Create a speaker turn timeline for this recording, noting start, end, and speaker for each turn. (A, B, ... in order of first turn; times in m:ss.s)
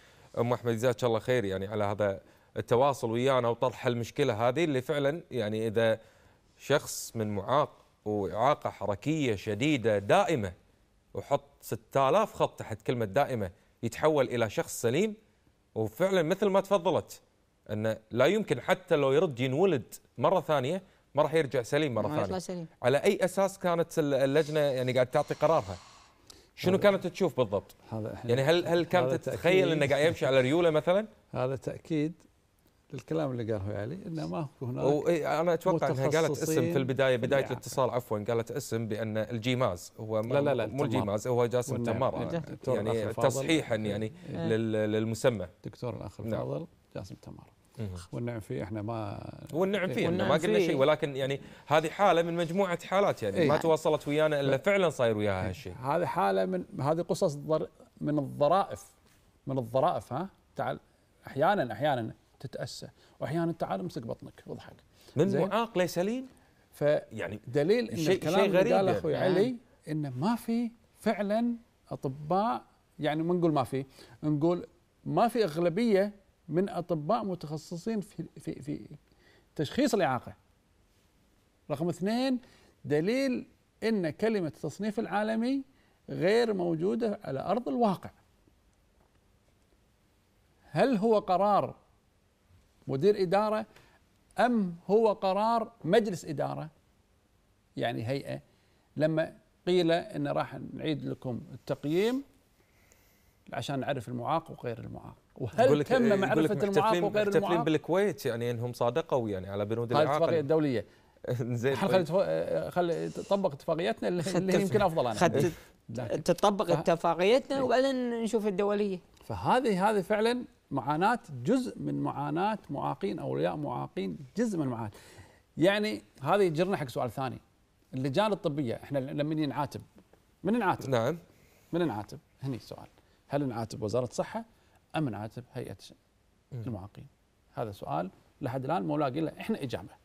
0:00.4-0:06.0 A
0:06.6-0:10.5 A
0:11.1-0:15.2 A
0:15.8-0:25.8 A
0:22.0-0:22.7 B
0:26.6-0:27.8 A
0:26.6-0:26.9 C
0:27.9-0:30.2 C
0:28.3-0:31.1 A
0:31.3-0:32.2 C
0:32.9-0:35.0 C
0:34.8-0:45.5 A
0:35.6-0:37.8 C
0:40.3-0:41.1 C
0:41.7-0:44.3 C
0:45.6-0:47.5 C
0:47.8-0:48.0 A
0:48.1-0:50.2 C
0:49.5-0:55.8 A
0:50.0-0:50.8 B
0:53.3-0:53.6 C
0:55.4-0:58.9 C
0:59.5-1:05.5 C
1:05.2-1:06.3 A
1:06.7-1:19.0 C
1:07.1-1:09.1 A
1:09.2-1:09.5 B
1:19.6-1:20.4 C
1:21.7-1:25.6 C
1:26.1-1:28.1 C
1:30.7-1:31.8 C
1:32.9-1:33.6 C
1:34.4-1:36.7 C
1:37.8-1:38.4 C
1:39.0-1:42.2 C
1:43.5-1:47.7 C
1:45.6-1:50.4 A
1:49.9-1:50.8 C
1:51.3-1:52.1 A
1:51.7-1:56.9 C
1:54.2-1:59.0 B
1:59.3-2:04.9 C
2:05.6-2:07.4 C
2:07.9-2:09.8 C
2:10.4-2:10.9 C
2:10.8-2:11.2 A
2:11.7-2:16.0 C
2:16.6-2:20.0 C